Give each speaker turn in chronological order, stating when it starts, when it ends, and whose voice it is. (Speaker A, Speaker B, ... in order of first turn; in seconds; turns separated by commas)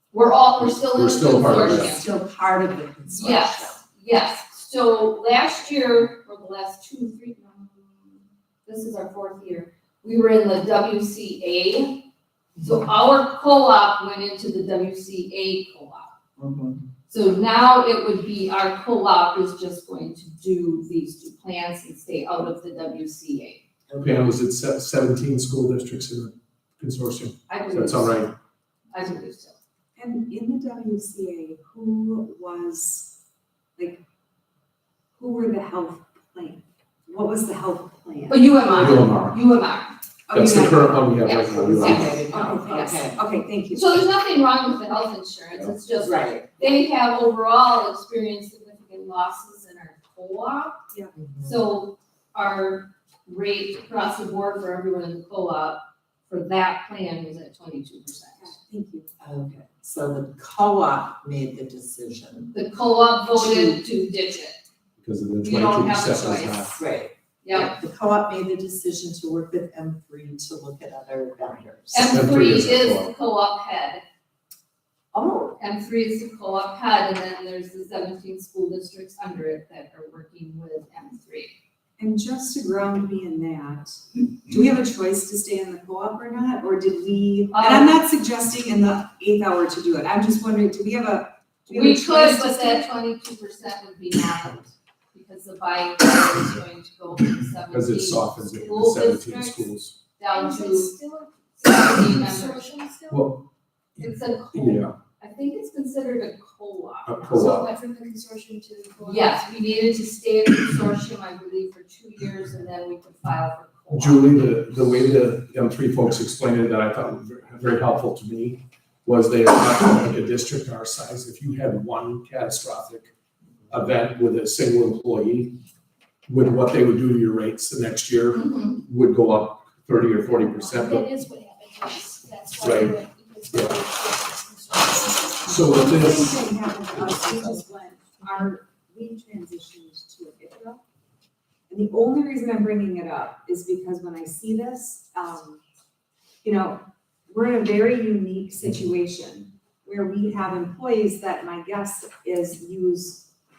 Speaker A: 0.1-2.0, Speaker B: 0.9-2.0, Speaker C: 1.4-3.8, Speaker A: 3.0-12.1, Speaker A: 12.6-16.1, Speaker C: 16.4-16.8, Speaker A: 17.1-23.6, Speaker C: 23.9-24.2, Speaker B: 24.0-28.3, Speaker A: 27.5-28.3, Speaker A: 28.9-29.6, Speaker D: 29.9-33.1, Speaker D: 35.2-38.5, Speaker A: 38.3-40.0, Speaker B: 38.7-39.4, Speaker D: 40.3-41.1, Speaker B: 40.3-42.2, Speaker A: 41.2-43.0, Speaker C: 41.5-43.2, Speaker D: 42.2-44.0, Speaker A: 43.7-50.8, Speaker C: 46.0-46.6, Speaker C: 51.1-51.6, Speaker A: 51.4-58.5, Speaker D: 58.4-59.1, Speaker C: 59.2-62.5, Speaker A: 62.5-64.6, Speaker C: 63.3-63.8, Speaker B: 65.0-66.8, Speaker A: 65.4-66.8, Speaker C: 66.8-72.2, Speaker A: 67.4-67.8, Speaker A: 71.9-74.0, Speaker B: 72.1-73.1, Speaker C: 75.1-75.6, Speaker A: 75.6-81.5, Speaker D: 82.0-92.8, Speaker A: 87.5-87.9, Speaker A: 91.7-100.9, Speaker B: 97.7-99.9, Speaker E: 100.3-103.3, Speaker A: 101.6-102.6, Speaker B: 103.1-103.4, Speaker A: 104.0-107.3, Speaker B: 104.5-104.9, Speaker B: 107.0-107.7, Speaker E: 107.3-109.7, Speaker A: 109.0-114.7, Speaker B: 113.9-123.1, Speaker B: 123.7-125.5, Speaker B: 126.3-131.1, Speaker A: 128.3-128.8, Speaker E: 130.5-135.8, Speaker B: 132.6-132.9, Speaker B: 133.5-133.8, Speaker B: 135.5-136.3, Speaker D: 135.6-140.8, Speaker D: 141.7-145.6, Speaker D: 146.4-153.3